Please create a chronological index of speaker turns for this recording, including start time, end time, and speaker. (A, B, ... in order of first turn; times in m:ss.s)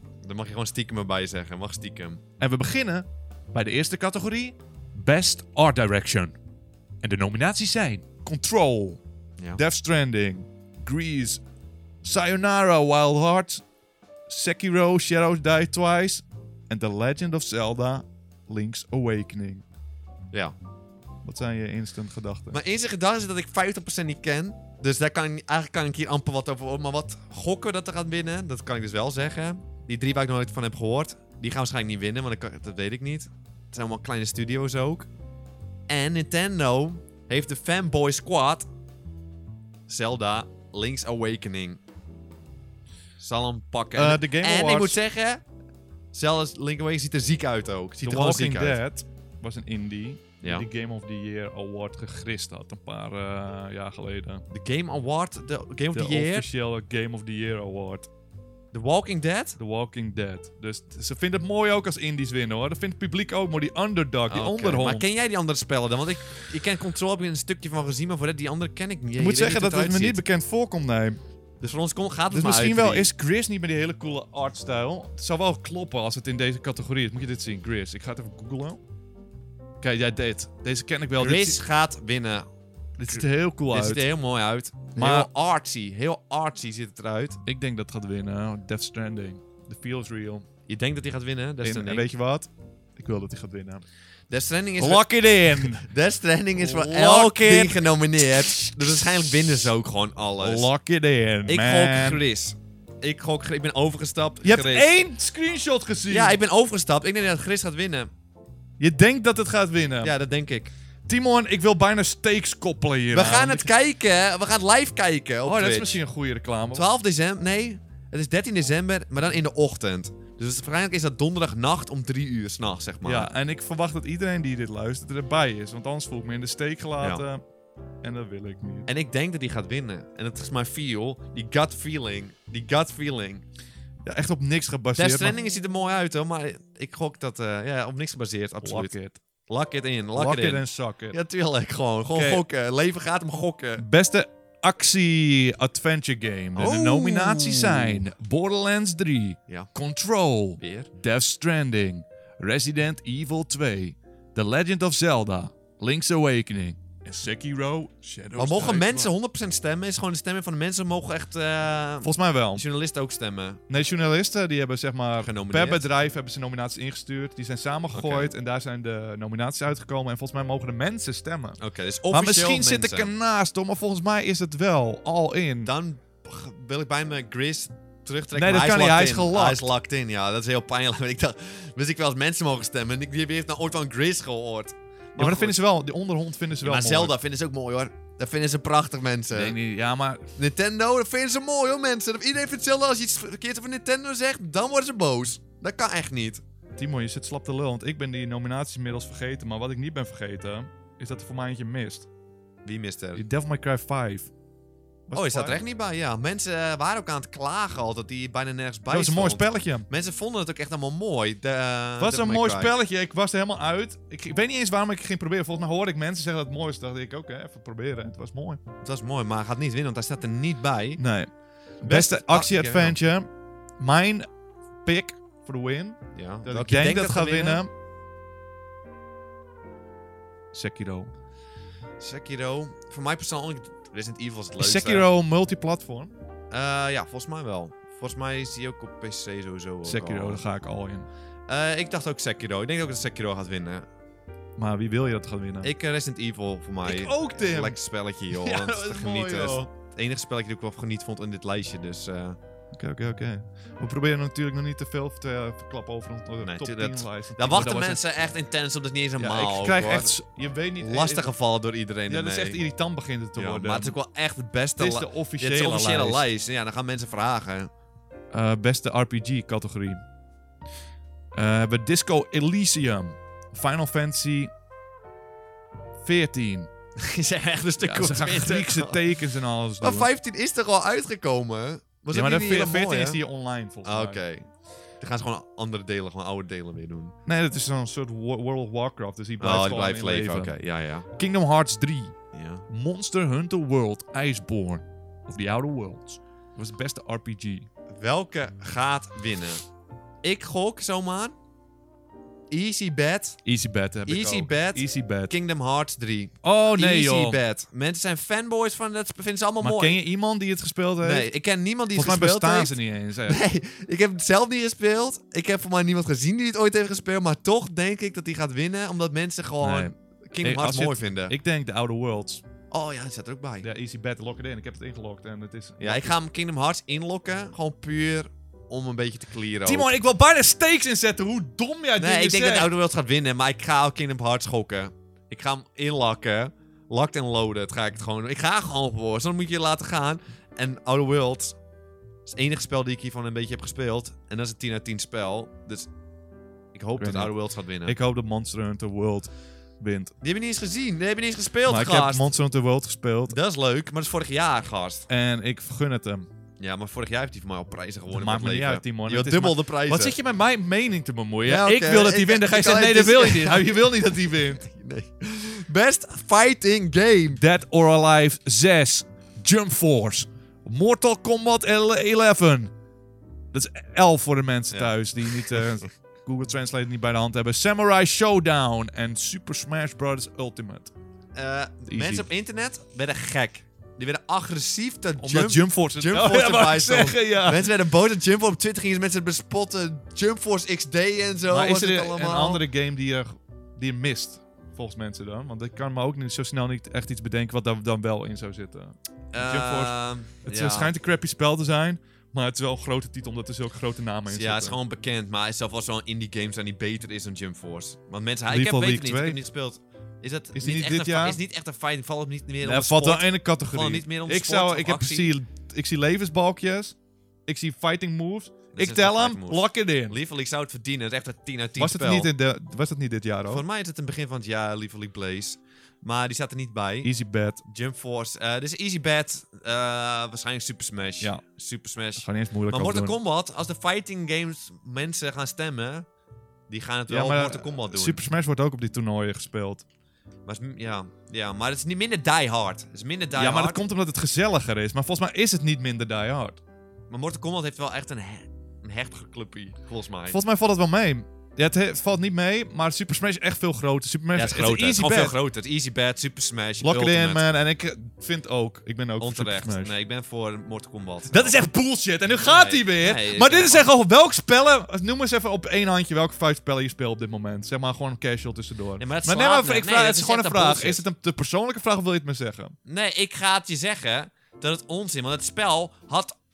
0:00.2-0:02.2 A
0:02.4-0:06.4 B
0:07.0-0:09.0 B
0:09.6-0:11.4 B
0:12.0-0:13.6 B
0:14.3-0:19.6 B
0:21.2-0:22.6 B
0:22.5-0:35.1 A
0:35.9-0:38.7 A
0:39.9-0:41.8 A
0:43.2-0:45.4 A
0:44.0-0:45.0 B
0:46.1-0:48.8 A
0:48.0-0:54.4 B
0:54.5-0:56.5 A
0:55.9-0:58.1 B
0:58.7-0:59.6 A
0:59.6-1:05.0 B
1:04.3-1:10.2 A
1:09.2-1:11.2 B
1:11.6-1:13.1 A
1:12.3-1:18.8 B
1:19.8-1:21.6 B
1:21.2-1:22.5 A
1:23.0-1:24.1 B
1:23.1-1:27.4 A
1:25.0-1:25.3 B
1:27.4-1:30.4 B
1:30.7-1:32.1 A
1:31.6-1:33.8 B
1:34.3-1:40.7 A
1:34.8-1:35.9 B
1:36.6-1:37.8 B
1:40.4-1:42.2 B
1:41.5-1:44.9 A
1:44.4-1:46.4 B
1:46.1-1:48.1 A
1:48.8-1:50.1 B
1:50.0-1:50.7 A
1:51.1-1:53.7 B
1:53.1-1:56.0 A
1:55.4-1:56.9 B
1:56.7-2:03.3 A
2:03.0-2:07.4 B
2:08.0-2:08.9 B
2:08.9-2:13.4 A
2:14.1-2:15.4 B
2:15.0-2:18.9 A
2:18.6-2:19.2 B
2:19.5-2:23.8 A
2:20.2-2:21.2 B
2:22.1-2:22.4 B
2:23.8-2:39.1 B
2:26.6-2:28.0 A
2:30.6-2:30.9 A
2:38.4-2:43.6 A
2:42.0-2:42.6 B
2:43.7-2:51.6 B
2:45.2-2:45.8 A
2:47.9-2:48.3 A
2:51.6-2:53.1 A
2:52.1-2:55.7 B
2:55.6-3:05.6 A
2:58.4-2:59.6 B
3:05.2-3:07.1 B
3:06.6-3:09.6 A
3:09.3-3:10.3 B
3:10.4-3:16.4 A
3:16.8-3:22.1 B
3:22.6-3:23.2 A
3:23.2-3:24.3 B
3:25.1-3:25.6 B
3:25.1-3:32.7 A
3:28.9-3:29.9 B
3:32.0-3:38.6 B
3:38.8-3:41.0 A
3:41.0-3:41.3 B
3:41.8-3:43.3 B
3:41.8-3:43.0 A
3:43.8-3:44.3 B
3:44.8-3:47.7 B
3:46.2-3:47.6 A
3:50.5-3:51.1 B
3:52.0-3:55.1 A
3:54.6-3:56.1 B
3:56.5-4:00.4 A
3:59.8-4:01.1 B
4:01.5-4:03.9 A
4:04.6-4:05.7 B
4:05.6-4:12.4 A
4:06.8-4:07.8 B
4:08.3-4:09.7 B
4:12.7-4:18.0 B
4:16.4-4:20.1 A
4:19.2-4:21.3 B
4:20.8-4:22.6 A
4:22.1-4:24.0 B
4:23.4-4:27.7 A
4:24.8-4:26.2 B
4:28.3-4:30.0 B
4:31.4-4:34.5 B
4:36.0-4:36.7 B
4:37.0-4:39.0 A
4:37.8-4:40.1 B
4:39.8-4:43.2 A
4:42.1-4:44.2 B
4:43.8-4:44.5 A
4:45.0-4:47.2 A
4:47.3-4:50.6 B
4:49.4-4:51.1 A
4:51.1-4:52.2 B
4:52.3-4:52.6 A
4:52.7-4:57.7 B
4:57.9-4:59.6 A
5:00.2-5:01.4 A
5:02.5-5:03.4 A
5:03.4-5:05.3 B
5:04.1-5:10.0 A
5:06.4-5:07.4 B
5:09.6-5:11.3 B
5:11.0-5:21.4 A
5:12.0-5:13.4 B
5:19.6-5:22.4 B
5:22.7-5:23.7 A
5:23.6-5:26.2 B
5:25.8-5:29.9 A
5:29.6-5:32.7 B
5:32.0-5:41.6 A
5:42.3-5:45.9 A
5:46.7-5:48.0 A
5:47.0-5:47.3 B
5:47.8-5:50.1 B
5:50.2-5:52.3 A
5:51.7-5:53.4 B
5:53.3-5:55.1 A
5:55.1-5:56.3 B
5:56.6-6:00.2 A
5:58.1-6:04.6 B
6:01.4-6:07.4 A
6:07.4-6:12.7 B
6:13.5-6:20.9 B
6:14.7-6:15.7 A
6:21.4-6:32.6 A
6:21.9-6:22.3 B
6:25.2-6:27.7 B
6:31.5-6:44.8 B
6:39.3-6:40.9 A
6:44.3-6:55.3 A
6:48.5-6:49.4 B
6:50.5-6:51.4 B
6:52.6-6:57.0 B
6:57.5-7:00.2 B
6:58.7-7:02.3 A
7:01.8-7:03.6 B
7:03.5-7:07.1 A
7:07.0-7:07.6 B
7:07.7-7:16.1 A
7:12.2-7:13.2 B
7:16.7-7:18.2 A
7:17.1-7:19.8 B
7:20.5-7:23.8 A
7:23.4-7:26.6 B
7:27.1-7:30.4 A
7:30.3-7:35.4 B
7:34.4-7:37.4 A
7:36.8-7:39.9 B
7:39.2-7:41.6 A
7:41.3-7:52.8 B
7:42.4-7:43.9 A
7:49.0-7:51.0 A
7:52.8-7:56.4 A